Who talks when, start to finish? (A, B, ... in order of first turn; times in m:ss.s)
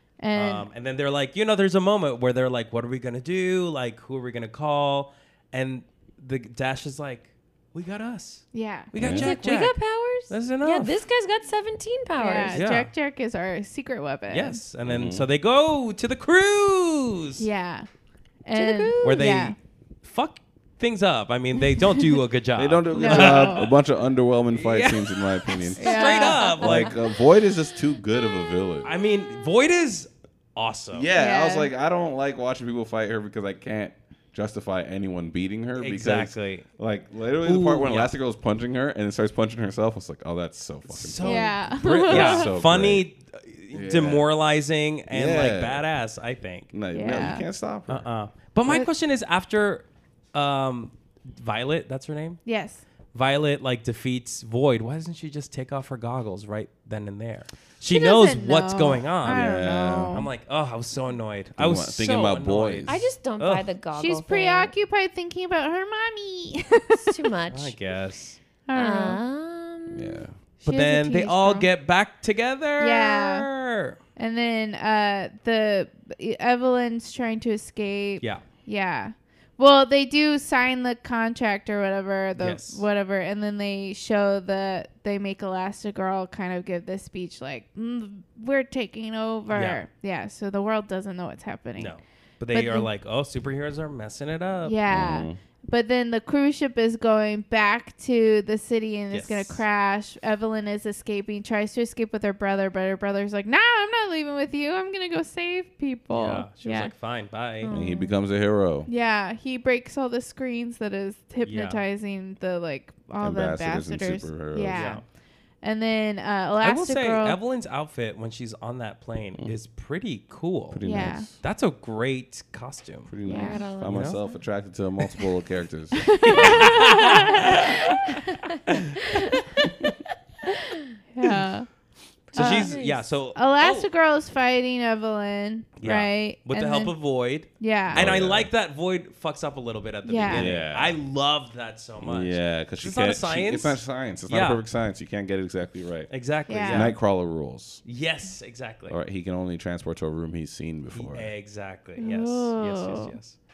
0:00.2-0:00.7 A
0:00.3-0:10.9 B
0:08.5-0:08.9 A
0:08.9-0:09.3 C
0:09.1-0:12.6 D
0:12.2-0:14.6 A
0:12.5-0:12.9 B
0:14.3-0:17.5 B
0:14.8-0:15.3 C
0:17.4-0:17.9 A
0:18.4-0:19.6 A
0:18.5-0:19.3 D
0:19.0-0:23.7 B
0:22.6-0:28.9 C
0:22.9-0:23.7 A
0:24.5-0:26.9 B
0:25.8-0:26.6 A
0:25.8-0:26.9 D
0:28.8-0:31.1 B
0:30.9-0:43.0 C
0:31.1-0:31.7 A
0:35.8-0:36.7 B
0:37.4-0:38.1 B
0:40.8-0:47.3 B
0:41.2-0:42.5 A
0:43.7-0:44.2 C
0:45.1-0:45.8 C
0:46.7-0:48.1 C
0:46.9-0:47.4 A
0:47.9-0:52.4 B
0:52.4-0:52.8 A
0:53.1-1:03.6 B
0:57.9-1:00.3 A
0:59.2-1:00.2 C
1:01.6-1:03.0 C
1:02.8-1:04.7 D
1:03.9-1:07.2 A
1:06.9-1:07.8 D
1:07.5-1:08.4 B
1:08.7-1:09.2 A
1:08.7-1:10.2 D
1:09.9-1:10.3 C
1:10.6-1:11.7 A
1:10.6-1:14.0 B
1:12.8-1:13.5 A
1:14.2-1:32.0 A
1:22.4-1:22.8 B
1:29.5-1:29.8 B
1:31.8-1:34.8 B
1:32.5-1:32.9 A
1:34.6-1:46.9 A
1:34.9-1:35.4 C
1:39.1-1:39.6 B
1:46.1-1:47.7 B
1:47.6-1:48.1 D
1:47.7-1:48.9 C
1:48.9-1:55.0 A
1:51.4-1:51.8 B
1:53.2-1:55.0 C
1:54.7-1:55.0 B
1:55.6-1:57.4 A
1:56.6-2:03.1 B
2:00.7-2:01.3 C
2:00.8-2:01.3 A
2:03.1-2:06.8 C
2:03.2-2:03.6 A
2:03.2-2:04.4 D
2:03.8-2:04.2 B
2:06.1-2:07.2 A
2:06.2-2:07.8 B
2:09.1-2:09.3 D
2:11.1-2:11.7 A
2:12.3-2:13.1 D
2:12.3-2:13.9 B
2:12.3-2:12.8 A
2:13.3-2:16.9 A
2:15.8-2:24.6 B
2:17.6-2:18.0 A
2:17.9-2:18.5 C
2:20.0-2:20.5 A
2:20.3-2:21.0 C
2:22.0-2:27.8 C
2:26.1-2:26.9 B
2:26.5-2:26.9 A
2:27.8-2:29.0 B
2:28.9-2:31.3 C
2:30.9-2:33.4 B
2:32.0-2:33.2 A